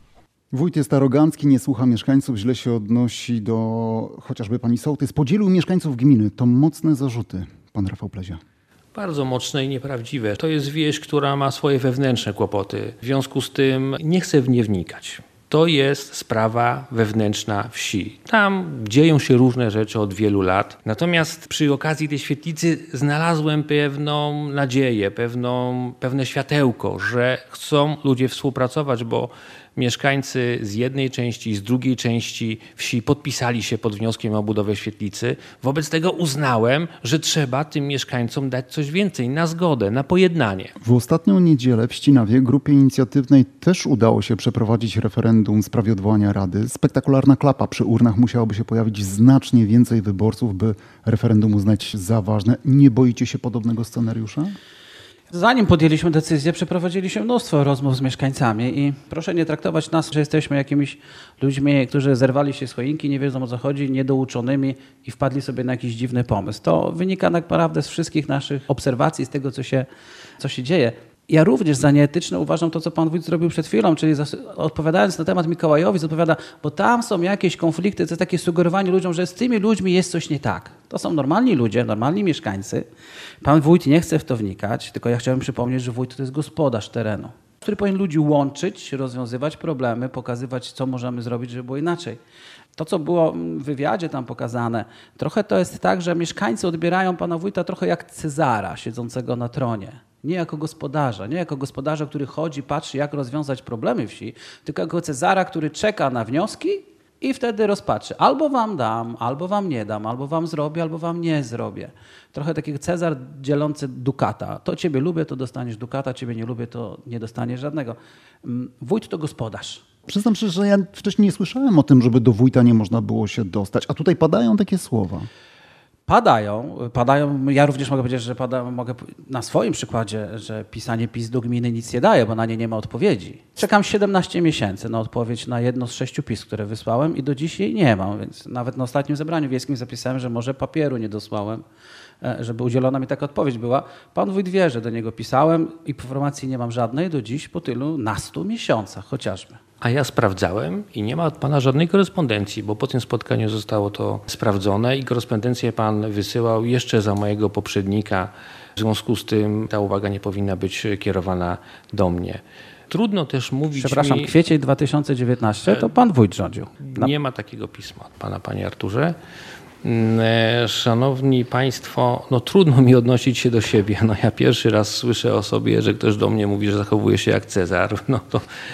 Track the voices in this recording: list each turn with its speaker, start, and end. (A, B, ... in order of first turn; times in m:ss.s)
0:00.5-0:08.4 A
0:08.9-0:40.7 B
0:40.8-0:54.6 A
0:55.3-1:09.9 C
1:10.4-1:22.9 C
1:23.4-1:32.2 C
1:32.8-1:59.8 C
2:00.1-2:05.3 A
2:06.1-2:21.6 C
2:22.2-2:29.6 C
2:29.8-2:44.4 B
2:43.8-2:47.1 C
2:45.7-2:45.9 B
2:46.9-2:49.2 B
2:49.8-2:58.4 B